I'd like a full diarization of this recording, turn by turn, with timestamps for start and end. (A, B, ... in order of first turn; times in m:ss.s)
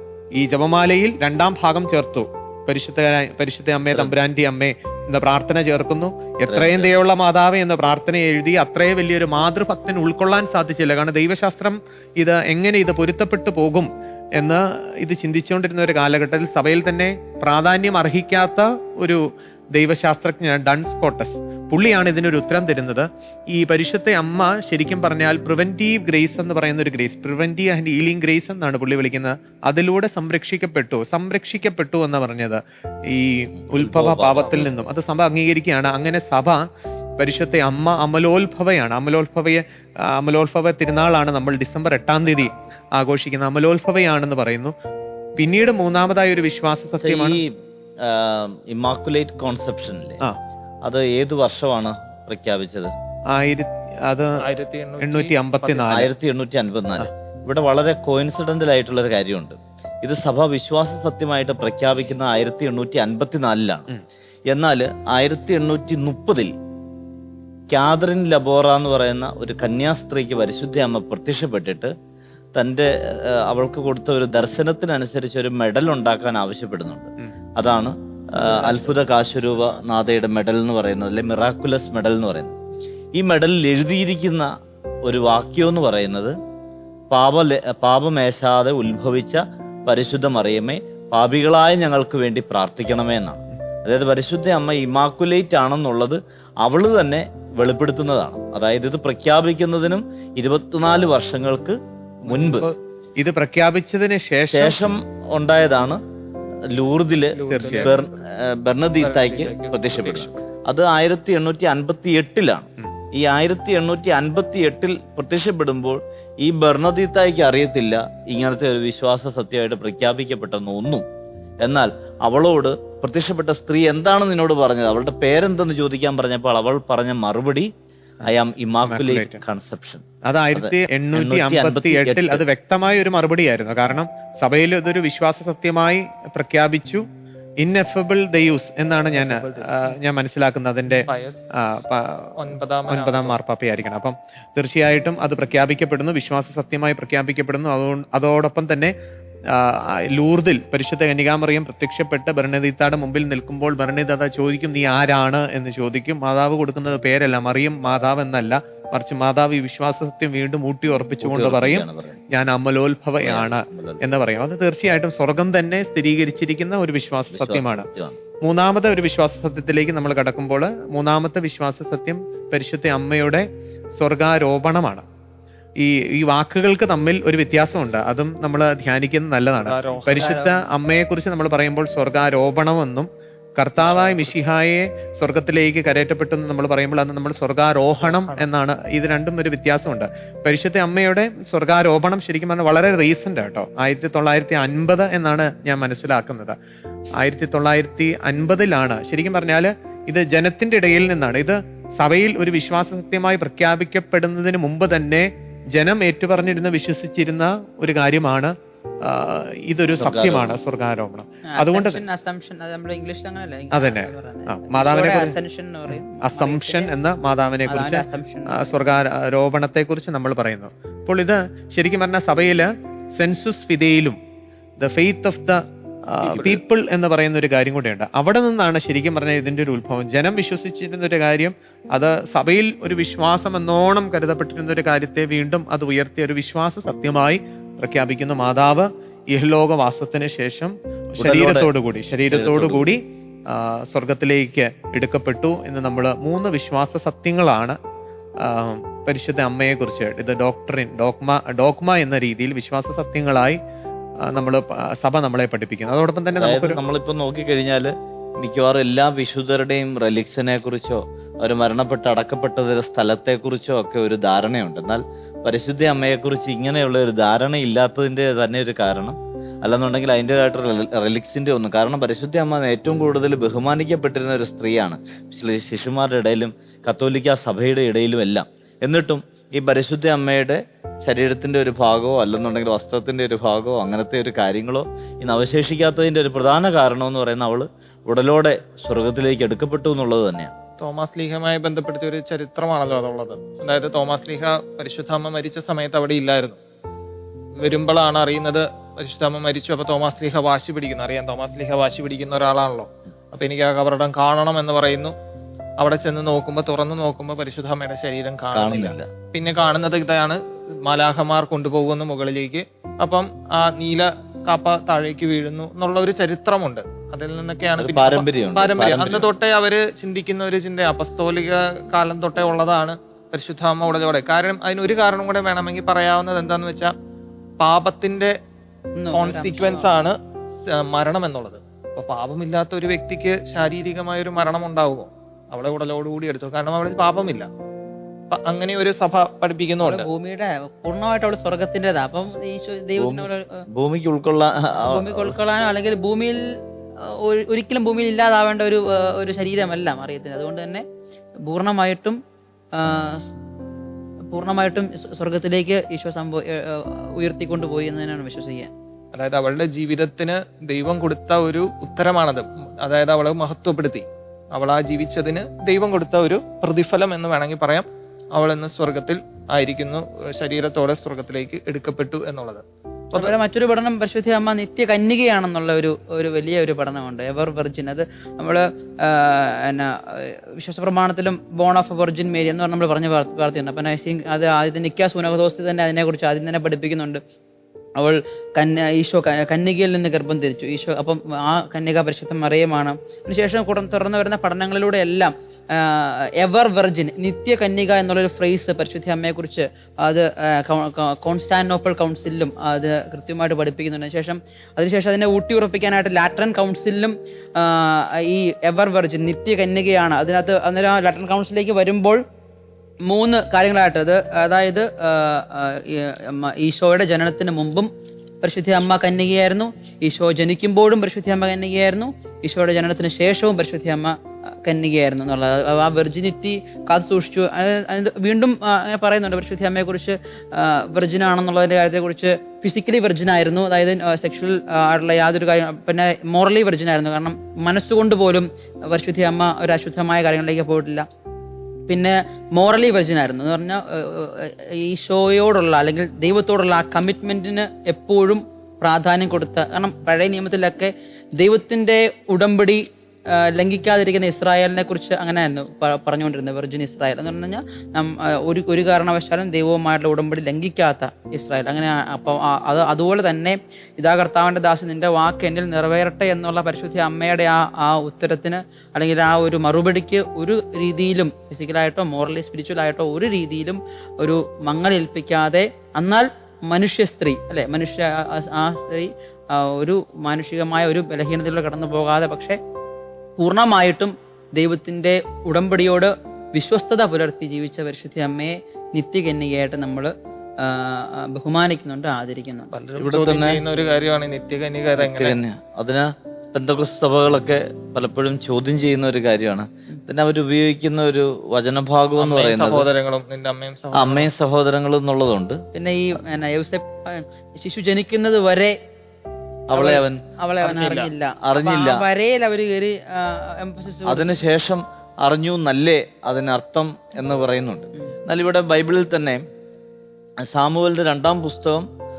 0:00.4-0:36.6 A
0:06.5-0:06.9 B
0:33.6-0:34.7 B
0:37.2-0:44.7 A
0:45.4-0:47.4 A
0:47.0-0:50.2 B
0:50.8-0:52.9 B
0:53.3-0:54.4 A
0:54.4-0:56.0 C
0:55.0-0:56.1 A
0:55.9-1:03.9 B
1:04.5-1:06.5 B
1:07.7-1:11.9 B
1:12.6-1:22.5 B
1:18.5-1:18.9 C
1:23.2-1:24.5 B
1:25.0-1:26.4 B
1:27.1-1:42.7 B
1:42.3-1:42.8 C
1:43.2-1:45.0 A
1:44.5-1:46.0 B
1:46.7-2:01.0 B
1:47.3-1:48.2 C
1:47.5-1:47.9 A
1:49.0-1:50.4 C
2:01.6-2:07.7 B
2:08.2-2:12.4 B
2:08.9-2:09.4 A
2:10.2-2:17.0 A
2:17.6-2:22.4 A
2:19.2-2:20.0 C
2:21.1-2:21.8 C
2:22.4-2:23.4 C
2:22.9-2:28.9 A
2:29.5-2:47.9 A
2:41.2-2:42.2 B
2:43.2-2:44.0 B
2:47.3-2:48.2 B
2:48.4-2:55.1 A
2:55.8-3:16.6 A
2:59.6-3:00.6 C
3:03.8-3:04.3 C
3:08.0-3:08.5 C
3:17.2-3:32.0 A
3:30.0-3:30.6 B
3:31.5-3:36.9 D
3:33.7-3:35.4 A
3:36.2-3:44.2 A
3:37.7-3:38.8 D
3:44.8-4:07.8 A
4:01.2-4:01.7 B
4:02.3-4:02.8 B
4:08.4-4:13.6 A
4:14.2-4:16.8 A
4:16.4-4:50.5 B
4:50.8-4:56.6 C
4:57.6-5:05.1 C
5:05.8-5:26.9 C
5:08.5-5:09.1 B
5:17.8-5:19.3 B
5:27.6-5:28.3 C
5:29.0-5:29.9 D
5:29.1-5:37.5 C
5:38.3-5:40.1 C
5:39.8-5:43.7 D
5:43.0-5:45.4 B
5:44.8-5:46.4 D
5:47.0-5:50.8 D
5:51.4-5:52.2 D
5:52.8-5:53.3 D
5:54.3-5:58.7 D
5:59.2-6:13.3 C
6:13.1-6:27.2 D
6:28.0-6:52.2 D
6:53.1-7:21.1 D
7:21.9-8:02.6 D
8:03.4-8:12.7 D
8:12.7-8:15.4 C
8:13.0-8:13.6 B
8:15.0-8:22.9 B
8:22.2-8:24.3 C
8:23.9-8:25.6 B
8:25.7-8:28.8 D
8:29.7-8:30.2 B
8:29.7-8:34.4 D
8:30.6-8:31.1 C
8:31.4-8:32.0 B
8:34.1-8:39.4 B
8:40.4-8:41.9 B